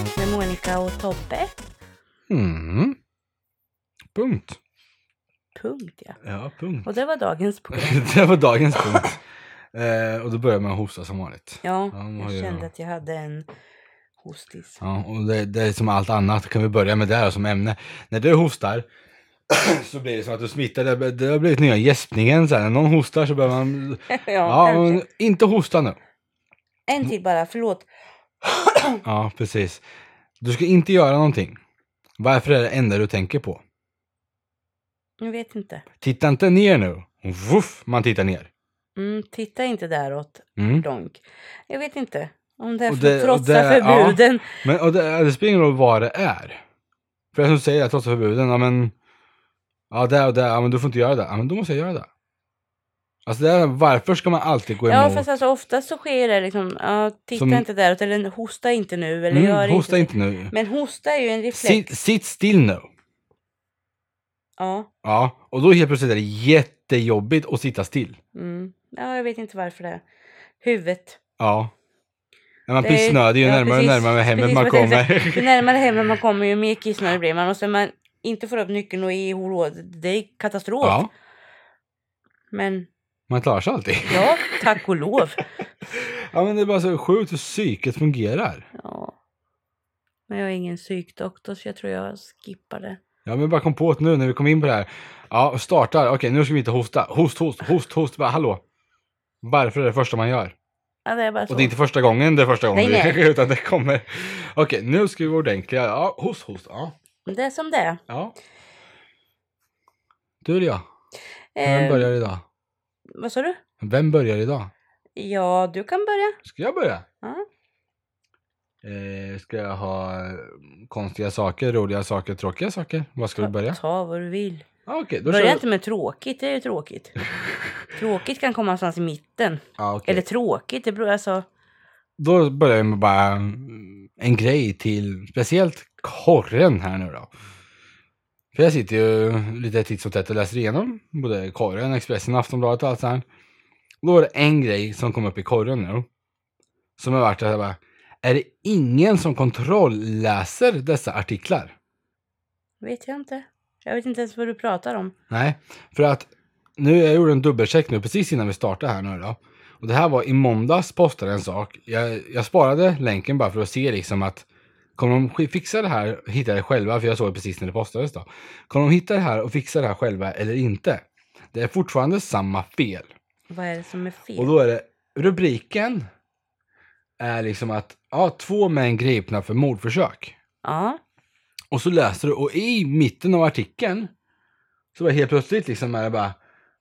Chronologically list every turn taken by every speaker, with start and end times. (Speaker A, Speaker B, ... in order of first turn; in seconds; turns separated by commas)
Speaker A: 0.1-1.6, Speaker B: 2.3-3.0, Speaker B: 4.1-4.6, Speaker A: 5.5-6.2, Speaker B: 6.2-6.9, Speaker A: 6.8-8.1, Speaker B: 7.7-9.2, Speaker B: 9.7-12.7, Speaker A: 11.6-13.5, Speaker A: 14.2-14.8, Speaker B: 14.8-18.9, Speaker B: 19.5-26.0, Speaker A: 24.1-25.0, Speaker A: 26.9-27.9, Speaker A: 28.5-29.0, Speaker B: 29.0-29.8, Speaker B: 30.4-31.6, Speaker B: 32.2-33.6, Speaker A: 35.2-35.8, Speaker B: 36.0-38.5, Speaker A: 39.0-44.5, Speaker B: 40.6-40.9, Speaker B: 42.9-46.6, Speaker B: 47.3-48.9, Speaker B: 49.9-52.1, Speaker B: 53.2-55.2, Speaker A: 54.9-61.9, Speaker B: 57.3-57.6, Speaker B: 59.3-60.5, Speaker B: 61.5-62.9, Speaker A: 64.6-64.9, Speaker B: 65.0-68.2, Speaker A: 68.3-70.0, Speaker A: 70.6-71.2, Speaker B: 71.4-71.7, Speaker B: 72.7-75.6, Speaker A: 72.8-81.1, Speaker B: 80.8-81.1, Speaker A: 82.5-82.9, Speaker B: 83.3-84.3, Speaker A: 84.1-85.4, Speaker B: 85.9-88.7, Speaker A: 88.8-89.1, Speaker A: 90.3-93.0, Speaker B: 93.2-98.6, Speaker B: 99.4-100.5, Speaker A: 101.0-101.7, Speaker B: 101.5-106.9, Speaker A: 102.7-103.2, Speaker A: 107.2-108.0, Speaker B: 108.1-108.3, Speaker B: 110.4-110.8, Speaker A: 111.5-112.1, Speaker B: 111.6-112.4, Speaker A: 113.2-113.6, Speaker B: 113.8-114.7, Speaker A: 115.2-116.4, Speaker B: 116.4-117.0, Speaker B: 118.8-123.8, Speaker A: 123.4-124.7, Speaker B: 124.8-125.6, Speaker A: 125.2-127.2, Speaker A: 127.9-131.4, Speaker B: 129.8-130.2, Speaker B: 132.2-137.3, Speaker B: 138.5-143.2, Speaker B: 144.0-146.1, Speaker B: 147.0-151.7, Speaker A: 152.8-155.1, Speaker B: 155.3-164.4, Speaker B: 165.0-173.1, Speaker A: 173.5-174.5, Speaker B: 174.4-176.1, Speaker B: 177.2-180.3, Speaker A: 180.6-181.0, Speaker B: 181.7-184.1, Speaker B: 184.9-186.3